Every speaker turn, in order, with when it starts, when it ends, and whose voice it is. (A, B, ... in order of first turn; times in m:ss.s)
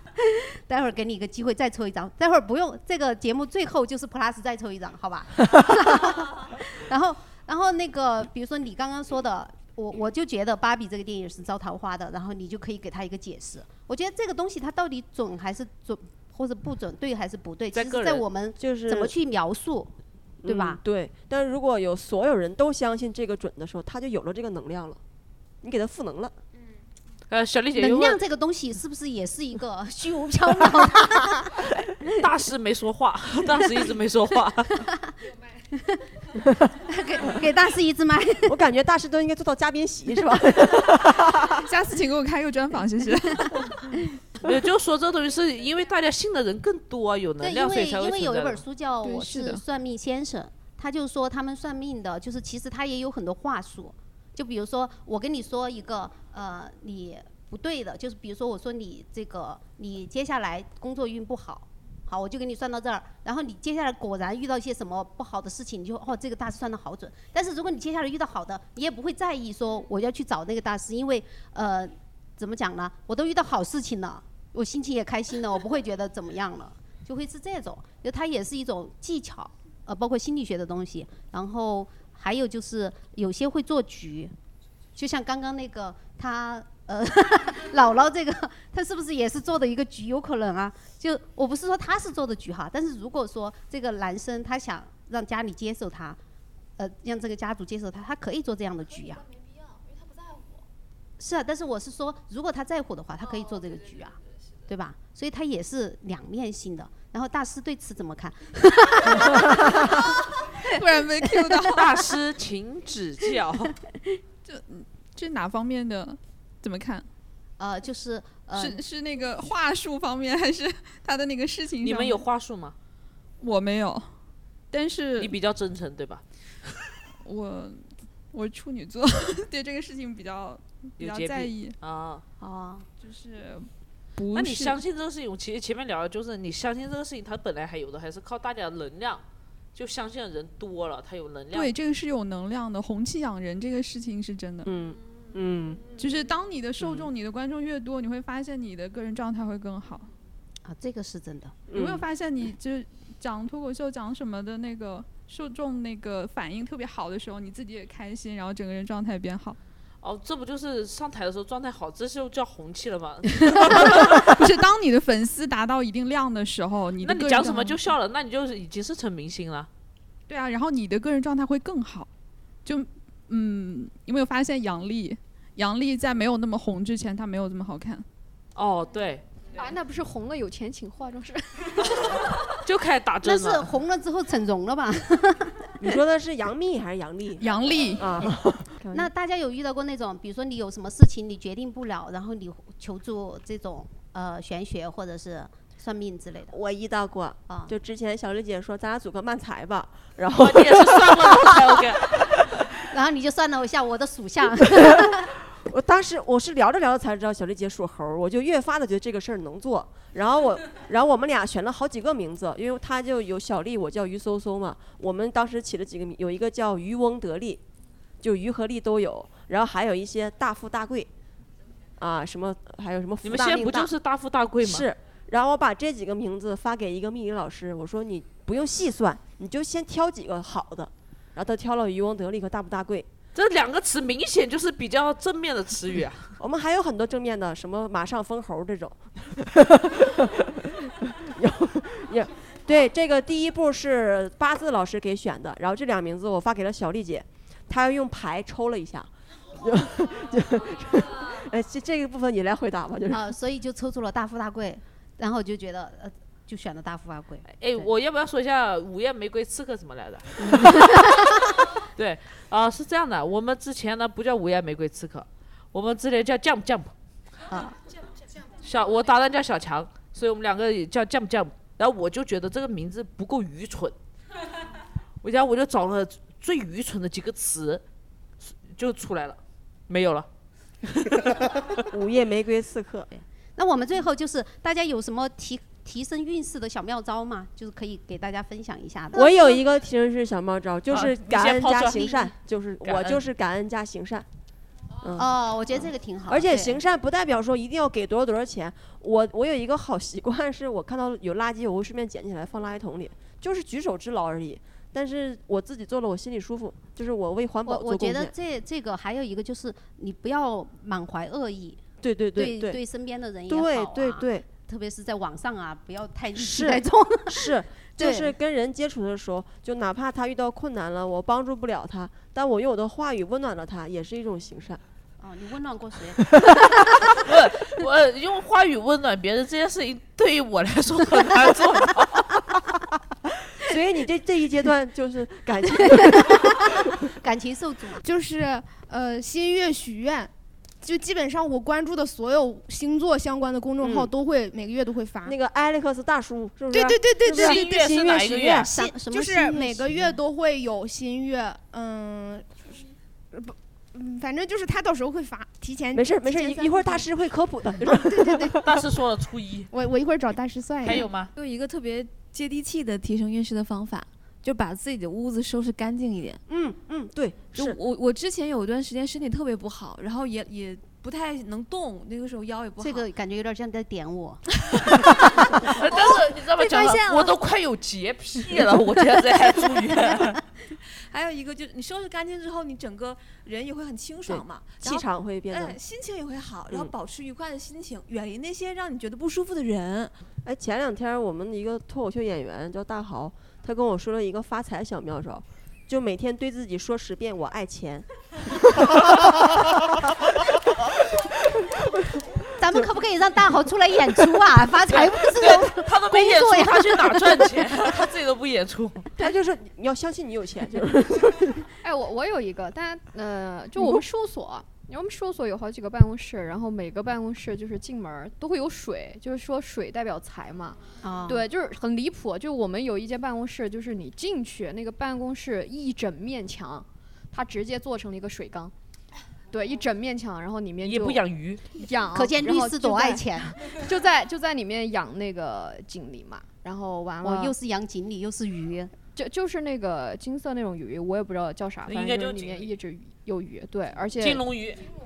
0:00.3-0:20.8 A
0:17.7-0:18.2 B
0:18.6-0:19.1 C
0:20.4-0:25.0 C
0:25.6-0:26.3 C
0:27.3-0:28.2 B
0:27.8-0:31.6 A
0:32.1-0:34.9 B
0:35.8-0:36.0 A
0:36.9-0:38.5 A
0:38.4-0:41.6 C
0:41.6-0:43.9 D
0:44.4-0:48.6 B
0:47.4-1:24.3 A
0:49.3-0:49.6 D
1:25.0-1:36.2 A
1:36.8-1:39.2 A
1:41.2-1:44.2 A
1:44.7-1:50.1 A
1:50.6-1:51.8 D
1:51.7-1:53.7 B
1:54.4-1:57.1 D
1:57.6-1:58.8 A
1:58.6-2:02.2 D
2:01.8-2:02.8 B
2:03.4-2:04.1 D
2:04.7-2:05.4 D
2:05.2-2:06.2 B
2:07.2-2:11.8 D
2:11.0-2:12.2 B
2:12.4-2:12.9 A
2:13.0-2:14.8 D
2:14.3-2:19.2 B
2:19.8-2:21.7 B
2:21.5-2:24.7 D
2:24.6-2:25.8 C
2:26.0-2:30.1 D
2:26.8-2:27.1 C
2:30.6-2:31.6 A
2:31.7-2:32.0 C
2:31.7-2:39.6 D
2:40.0-2:44.4 B
2:43.7-2:47.8 D
2:47.0-2:49.7 B
2:50.3-2:52.1 D
2:52.6-2:58.0 D
2:58.6-2:59.3 B
2:59.6-3:02.2 E
3:02.6-3:03.7 B
3:03.2-3:05.7 A
3:05.8-3:09.1 C
3:07.4-3:08.0 D
3:08.9-3:16.5 A
3:16.5-3:21.8 C
3:20.3-3:22.4 B
3:22.9-3:25.3 A
3:25.6-3:37.6 C
3:38.2-3:41.1 C
3:42.0-3:43.9 C
3:43.2-3:44.9 B
3:44.6-3:53.1 C
3:53.4-3:56.3 B
3:56.4-4:13.3 C
4:13.1-4:17.9 A
4:17.5-4:21.0 B
4:21.8-4:26.9 B
4:27.5-4:27.8 A
4:28.6-4:34.0 B
4:35.2-4:37.8 B
4:38.4-4:40.3 B
4:41.0-4:41.7 B
4:41.9-4:43.1 C
4:43.1-4:49.3 A
4:49.1-4:54.2 C
4:50.9-4:52.3 B
4:52.8-4:53.2 B
4:55.0-4:55.4 C
4:55.2-4:56.8 A
4:56.3-5:08.3 C
5:07.7-5:11.8 A
5:12.0-5:12.8 C
5:12.4-5:18.3 A
5:13.5-5:14.5 C
5:16.4-5:24.8 C
5:25.2-5:26.3 A
5:27.2-5:32.4 B
5:33.6-5:36.8 C
5:35.9-5:38.0 A
5:38.0-5:40.3 F
5:40.8-5:45.4 F
5:43.8-5:44.1 C
5:45.2-5:48.7 C
5:46.7-5:47.6 F
5:47.3-5:48.8 B
5:48.7-5:50.2 A
5:49.0-5:57.0 F
5:55.9-5:58.8 C
5:57.8-5:58.6 F
5:58.6-5:59.7 B
5:59.7-6:01.1 F
6:00.8-6:01.3 B
6:01.4-6:06.4 G
6:06.5-6:07.8 C
6:07.5-6:13.1 G
6:12.8-6:14.4 A
6:15.7-6:20.4 B
6:15.8-6:17.4 G
6:21.1-6:30.1 G
6:24.3-6:25.8 C
6:30.4-6:40.6 C
6:41.1-6:42.2 C
6:42.6-6:47.4 A
6:45.2-6:49.1 B
6:49.2-6:51.6 C
6:51.8-7:08.7 E
7:01.0-7:01.4 A
7:09.5-7:17.6 E
7:10.8-7:11.7 B
7:12.1-7:13.6 A
7:17.2-7:18.9 A
7:19.2-7:24.5 E
7:21.9-7:22.7 B
7:24.2-7:24.8 B